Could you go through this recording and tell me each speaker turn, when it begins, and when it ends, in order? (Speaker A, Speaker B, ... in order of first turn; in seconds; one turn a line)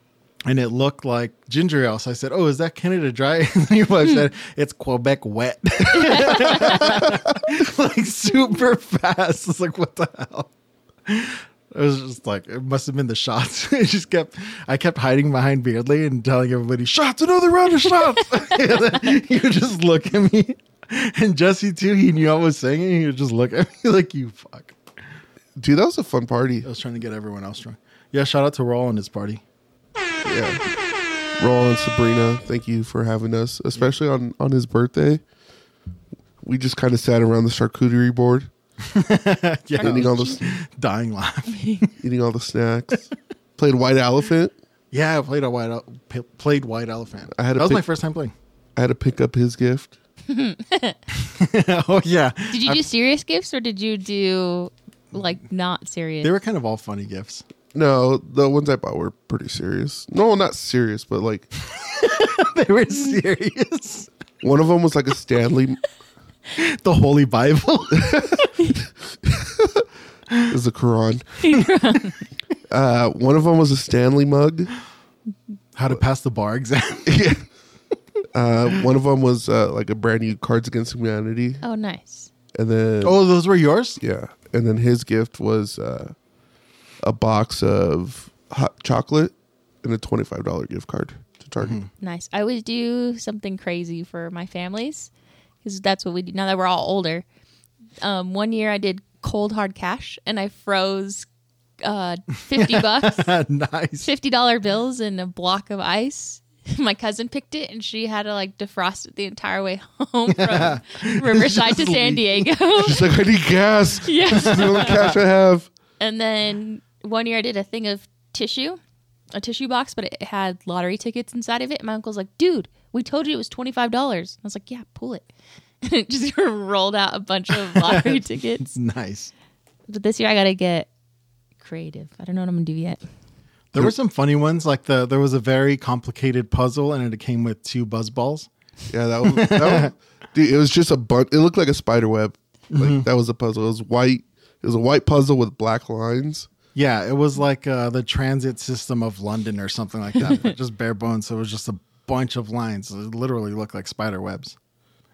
Speaker A: 0.5-10.5
Speaker A: 11.1-24.8
Speaker B: 25.6-26.7
Speaker A: 26.6-29.4
Speaker B: 30.2-30.6
Speaker B: 31.4-35.2
Speaker B: 36.4-38.5
Speaker A: 38.8-41.9
Speaker C: 39.8-40.5
Speaker B: 39.8-40.4
Speaker B: 42.0-44.5
Speaker A: 44.9-48.3
Speaker B: 47.3-47.8
Speaker B: 48.8-50.0
Speaker C: 50.3-51.0
Speaker A: 51.1-52.9
Speaker C: 52.5-56.4
Speaker A: 56.2-57.5
Speaker B: 57.7-61.5
Speaker A: 61.6-64.1
Speaker B: 64.4-65.8
Speaker A: 66.6-68.6
Speaker B: 68.1-68.5
Speaker B: 69.2-69.8
Speaker B: 70.5-71.6
Speaker C: 71.4-72.2
Speaker B: 72.7-74.8
Speaker A: 75.8-77.3
Speaker B: 77.1-77.5
Speaker B: 78.3-81.6
Speaker C: 81.6-82.3
Speaker B: 82.5-83.2
Speaker A: 83.0-84.0
Speaker B: 84.0-86.2
Speaker B: 87.0-91.8
Speaker A: 91.6-91.9
Speaker C: 92.0-95.1
Speaker C: 95.6-97.2
Speaker C: 98.0-101.3
Speaker C: 101.8-103.4
Speaker A: 102.5-104.1
Speaker C: 104.0-113.1
Speaker A: 110.3-112.5
Speaker B: 112.8-115.7
Speaker C: 114.0-115.1
Speaker A: 114.4-115.1
Speaker C: 116.0-118.8
Speaker C: 119.3-125.3
Speaker C: 125.8-128.8
Speaker A: 127.7-129.3
Speaker C: 129.9-130.9
Speaker C: 131.6-133.0
Speaker A: 133.7-138.5
Speaker B: 138.9-146.5
Speaker A: 139.3-139.9
Speaker A: 142.7-143.1
Speaker A: 146.8-154.6